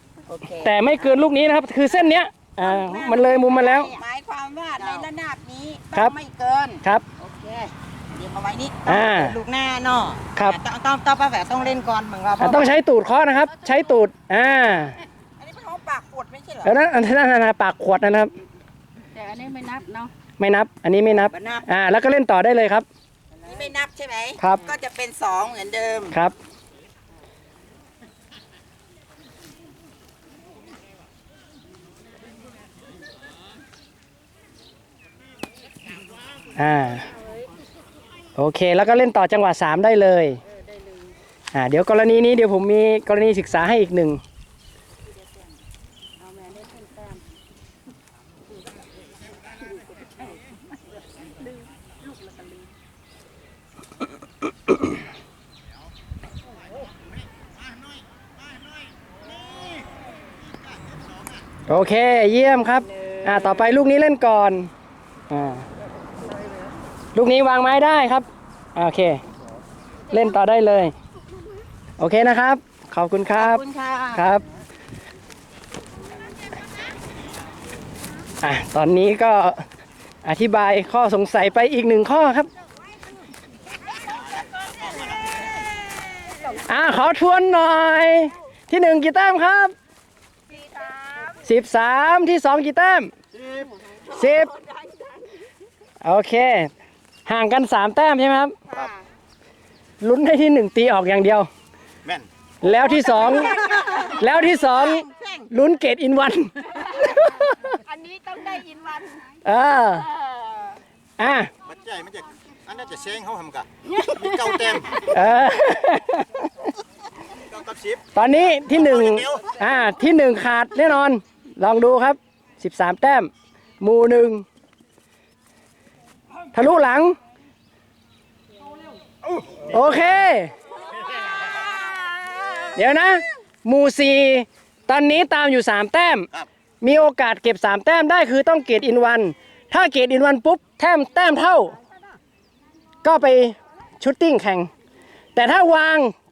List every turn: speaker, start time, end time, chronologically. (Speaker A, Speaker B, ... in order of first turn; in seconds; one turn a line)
Speaker A: 0.3-0.7
Speaker B: 0.6-3.9
Speaker A: 2.6-12.7
Speaker C: 2.8-4.0
Speaker C: 4.7-5.1
Speaker B: 8.9-9.4
Speaker B: 12.4-15.0
Speaker A: 15.4-16.7
Speaker B: 16.6-18.3
Speaker A: 19.1-20.1
Speaker B: 20.4-22.9
Speaker A: 21.3-21.6
Speaker A: 23.4-26.1
Speaker C: 23.4-23.8
Speaker B: 24.4-24.7
Speaker B: 36.5-37.1
Speaker B: 38.4-40.4
Speaker B: 41.5-44.2
Speaker C: 46.2-47.1
Speaker D: 59.3-59.8
Speaker D: 60.7-61.0
Speaker B: 61.7-64.7
Speaker B: 65.3-65.6
Speaker B: 67.1-69.2
Speaker B: 70.1-70.9
Speaker B: 72.0-74.4
Speaker A: 73.3-74.2
Speaker B: 78.4-79.6
Speaker B: 80.2-82.5
Speaker D: 84.0-85.6
Speaker B: 86.6-89.7
Speaker C: 90.5-91.4
Speaker B: 91.4-93.1
Speaker D: 93.3-93.7
Speaker B: 94.0-94.5
Speaker C: 94.3-95.1
Speaker B: 96.0-96.7
Speaker B: 97.2-98.5
Speaker C: 98.7-99.0
Speaker B: 100.0-101.5
Speaker B: 102.6-107.6
Speaker C: 102.7-104.1
Speaker A: 103.0-105.5
Speaker C: 107.7-109.3
Speaker B: 109.4-110.1
Speaker B: 111.2-111.5
Speaker D: 111.6-115.3
Speaker A: 114.4-114.7
Speaker B: 115.1-116.5
Speaker D: 117.3-119.6
Speaker B: 118.1-124.4
Speaker B: 126.5-127.2
Speaker D: 129.4-129.8
Speaker B: 129.7-130.5
Speaker C: 131.9-132.5
Speaker B: 132.7-136.3
Speaker B: 136.8-141.7
Speaker B: 143.0-144.7
Speaker B: 145.3-146.1